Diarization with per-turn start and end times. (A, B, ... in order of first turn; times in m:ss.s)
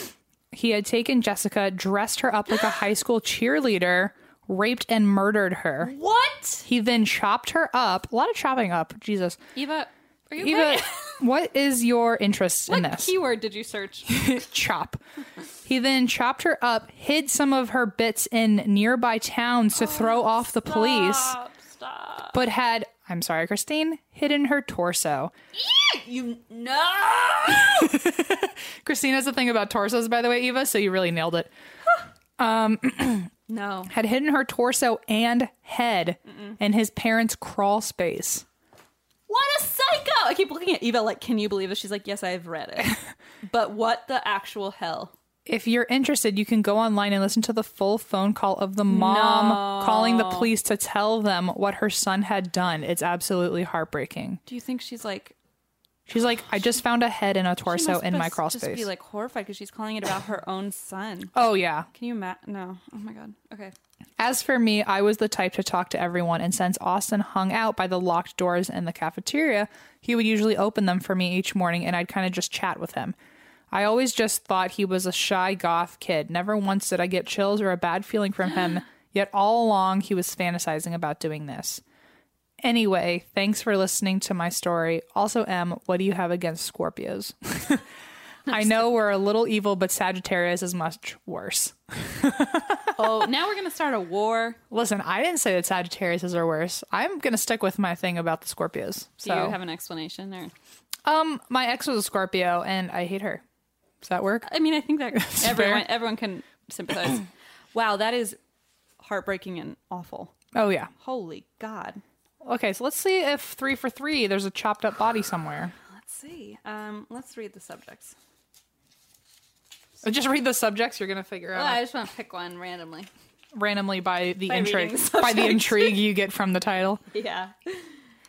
0:00.5-0:05.9 A
0:05.8-0:06.7 B
0:06.6-0:09.4 A
0:09.6-0:11.2 B
0:10.4-0:13.1 A
0:12.7-0:14.1 B
0:14.1-0:15.0 A
0:15.6-0:21.4 A
0:19.8-0:22.4 B
0:22.3-0:25.3 A
0:25.6-0:28.0 B
0:27.6-0:31.5 A
0:32.4-0:33.3 A
0:33.5-0:33.9 B
0:33.9-0:38.4 A
0:36.3-0:36.6 B
0:39.3-0:45.1 B
0:45.5-0:54.4 A
0:48.9-0:50.5 B
0:54.5-0:55.4 B
0:56.1-0:58.9 A
0:57.7-1:01.3 B
1:01.4-1:01.9 A
1:01.9-1:03.7 B
1:04.2-1:13.2 A
1:13.7-1:21.8 A
1:22.6-1:27.9 A
1:28.5-1:28.8 B
1:28.5-1:33.3 A
1:33.0-1:34.6 B
1:34.7-1:39.6 A
1:39.2-1:40.5 B
1:41.0-1:43.4 A
1:44.0-1:44.5 A
1:44.4-1:48.4 B
1:45.1-1:45.9 A
1:49.0-1:50.3 B
1:50.5-1:50.9 A
1:51.0-1:52.0 B
1:52.4-1:55.7 A
1:55.9-1:58.2 B
2:00.0-2:01.8 A
2:01.5-2:03.1 B
2:03.5-2:07.0 A
2:04.5-2:06.0 B
2:07.1-2:08.0 B